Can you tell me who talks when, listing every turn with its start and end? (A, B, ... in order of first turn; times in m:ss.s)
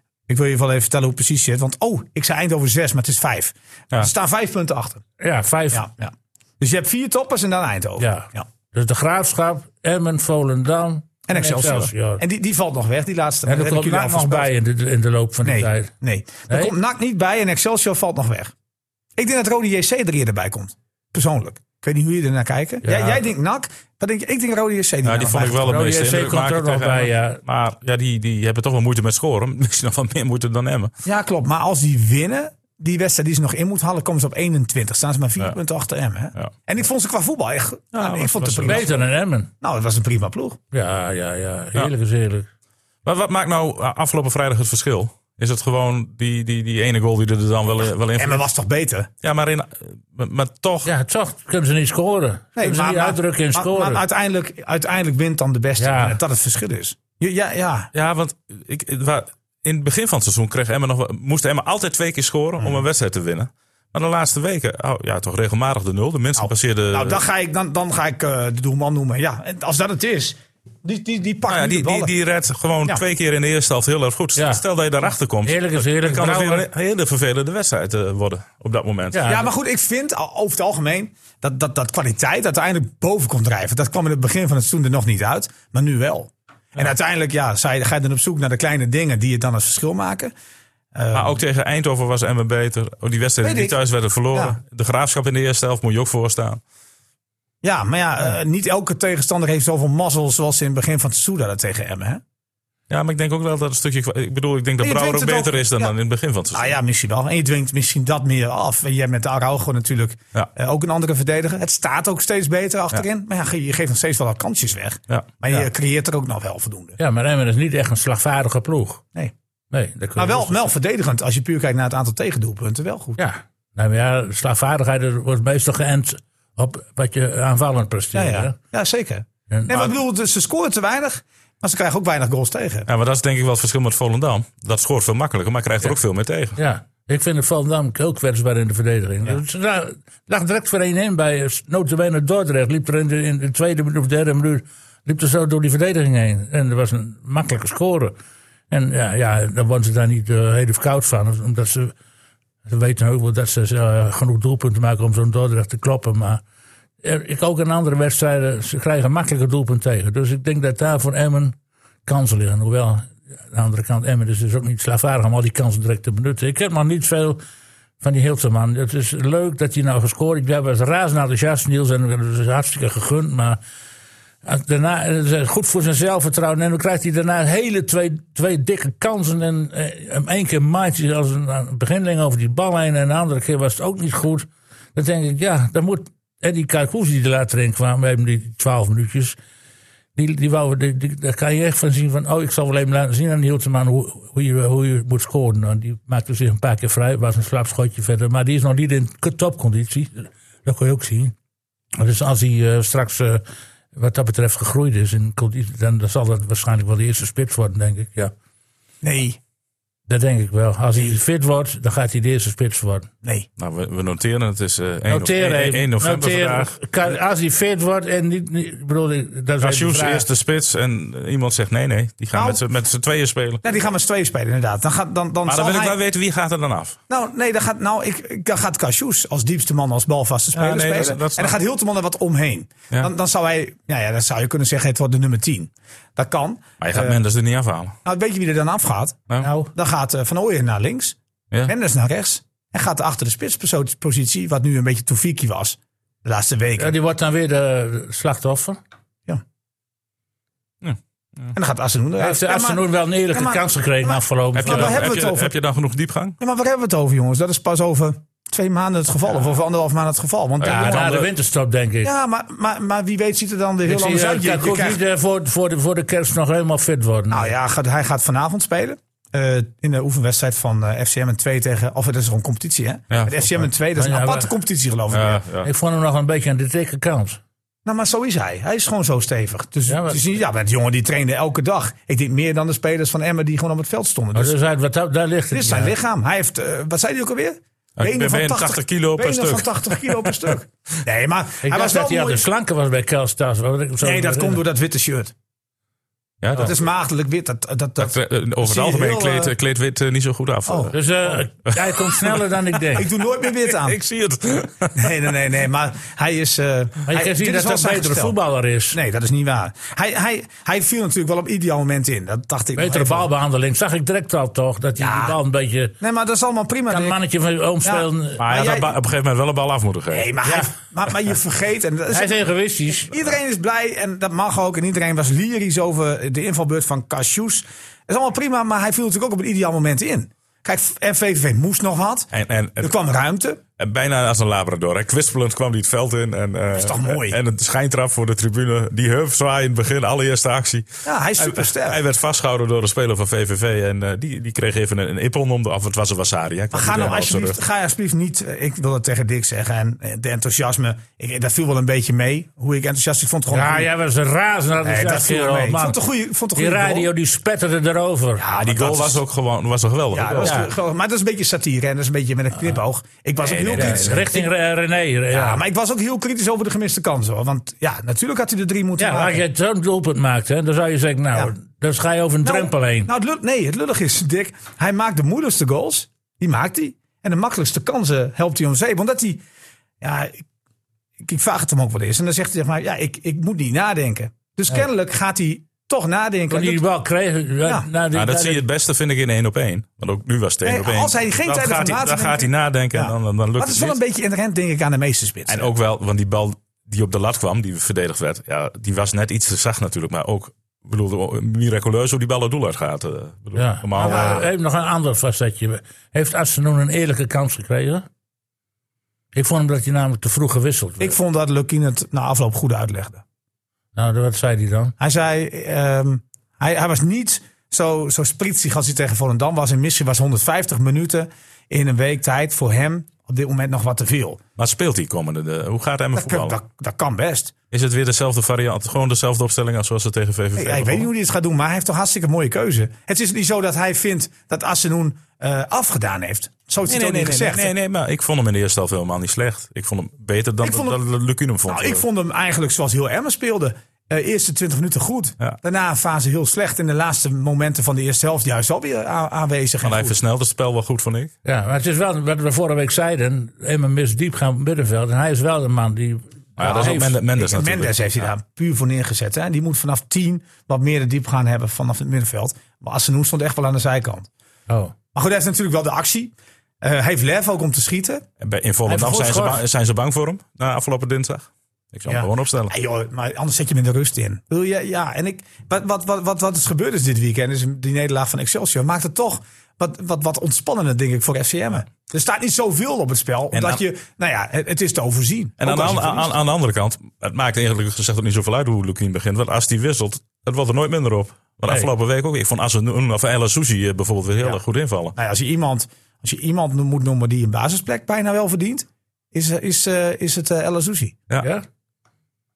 0:00.3-0:05.0 A
0:05.2-0:05.9 B
0:05.7-0:08.5 A
0:08.0-0:12.2 B
0:11.3-0:14.5 A
0:13.5-0:15.9 B
0:15.4-0:18.5 A
0:16.5-0:16.7 B
0:19.2-0:25.8 A
0:22.8-0:23.2 B
0:25.0-0:30.9 C
0:25.7-0:27.4 B
0:31.0-0:39.0 A
0:37.9-0:38.9 C
0:38.6-0:39.5 B
0:39.6-0:40.6 A
0:40.7-0:42.5 B
0:43.0-0:48.5 C
0:48.2-0:49.1 A
0:49.2-0:50.9 C
0:50.8-0:54.0 B
0:52.6-0:57.9 A
0:55.8-0:56.2 B
0:57.9-1:07.2 C
1:06.4-1:12.1 A
1:11.5-1:19.3 C
1:14.4-1:14.6 B
1:15.4-1:16.7 B
1:19.1-1:19.5 B
1:19.3-1:30.3 A
1:30.9-1:31.4 A
1:31.1-1:36.6 C
1:33.4-1:33.8 A
1:37.6-1:42.2 A
1:42.9-1:46.8 C
1:44.8-1:45.9 A
1:46.5-1:57.0 A
1:57.0-1:59.0 B
1:59.7-2:00.6 B
2:00.2-2:03.2 A
2:03.2-2:08.6 B
2:08.1-2:12.9 A
2:09.5-2:09.8 B
2:12.9-2:16.6 C
2:16.6-2:28.2 B
2:28.7-2:31.9 B
2:32.6-2:36.4 B
2:37.0-2:47.4 B
2:48.0-2:53.6 B
2:54.4-3:09.4 B
3:10.2-3:21.4 B
3:22.0-3:28.3 B
3:29.0-3:29.4 A
3:30.1-3:33.1 B
3:33.6-3:36.8 C
3:35.1-3:40.3 B
3:39.6-3:43.6 C
3:42.3-3:42.6 A
3:43.6-3:46.0 A
3:45.5-3:47.0 C
3:47.1-3:57.2 A
3:50.5-3:51.6 C
3:56.8-3:58.0 C
3:58.0-4:07.0 A
3:59.4-3:59.7 B
4:06.8-4:08.8 B
4:10.8-4:11.6 C
4:11.6-4:15.5 A
4:12.2-4:15.1 B
4:14.5-4:16.4 C
4:16.4-4:21.1 A
4:20.6-4:21.3 C
4:20.6-4:22.1 B
4:22.0-4:25.0 A
4:23.9-4:27.5 B
4:27.3-4:35.4 A
4:33.1-4:33.4 C
4:34.0-4:34.5 B
4:35.1-4:35.7 C
4:35.6-4:37.4 B
4:37.8-4:44.6 A
4:39.9-4:40.2 B
4:44.4-4:46.0 B
4:45.5-4:52.5 A
4:48.0-4:50.5 C
4:51.6-4:54.6 B
4:54.0-4:55.3 A
4:56.4-4:56.8 C
4:56.6-4:59.6 A
4:58.0-5:01.0 C
5:00.7-5:01.0 A
5:00.9-5:03.1 B
5:01.7-5:02.4 C
5:02.9-5:04.0 A
5:03.0-5:05.2 C
5:05.0-5:08.4 A
5:07.1-5:09.0 B
5:08.9-5:13.3 A
5:12.8-5:15.9 B
5:15.0-5:15.4 A
5:16.0-5:17.2 A
5:16.9-5:18.5 B
5:17.8-5:19.0 A
5:18.4-5:20.3 C
5:20.1-5:22.4 A
5:20.4-5:20.7 B
5:22.1-5:23.1 B
5:23.1-5:33.6 A
5:32.3-5:32.9 C
5:33.8-5:40.9 C
5:36.7-5:37.4 A
5:41.0-5:42.0 A
5:41.4-5:47.6 C
5:46.7-5:53.9 A
5:53.5-5:56.0 B
5:54.8-5:57.1 A
5:56.6-5:58.4 B
5:58.4-5:59.2 A
5:58.5-6:00.6 C
6:00.1-6:04.5 A
6:00.4-6:00.7 B
6:03.4-6:04.3 C
6:03.7-6:05.6 B
6:05.3-6:09.4 A
6:09.0-6:13.1 B
6:12.4-6:19.4 A
6:20.0-6:20.4 A
6:21.2-6:26.8 A
6:26.5-6:28.6 B
6:28.1-6:34.0 C
6:30.6-6:35.7 A
6:35.5-6:44.5 C
6:43.6-6:48.1 B
6:44.0-6:44.5 A
6:49.3-6:51.2 B
6:51.0-6:53.2 A
6:54.0-6:54.9 B
6:55.0-7:04.4 A
7:04.6-7:06.6 C
7:06.1-7:07.5 A
7:07.7-7:11.1 C
7:10.6-7:17.7 A
7:16.9-7:22.0 C
7:20.6-7:21.0 A
7:21.7-7:30.2 A
7:29.8-7:31.3 C
7:31.4-7:37.2 B
7:36.6-7:38.3 C
7:36.6-7:44.3 A
7:44.7-7:44.9 B
7:45.2-7:48.2 A
7:48.4-7:52.7 C
7:48.9-7:49.6 B
7:52.1-8:06.4 A
8:03.5-8:03.8 C
8:05.6-8:15.2 C
8:15.2-8:21.2 A
8:21.4-8:21.6 B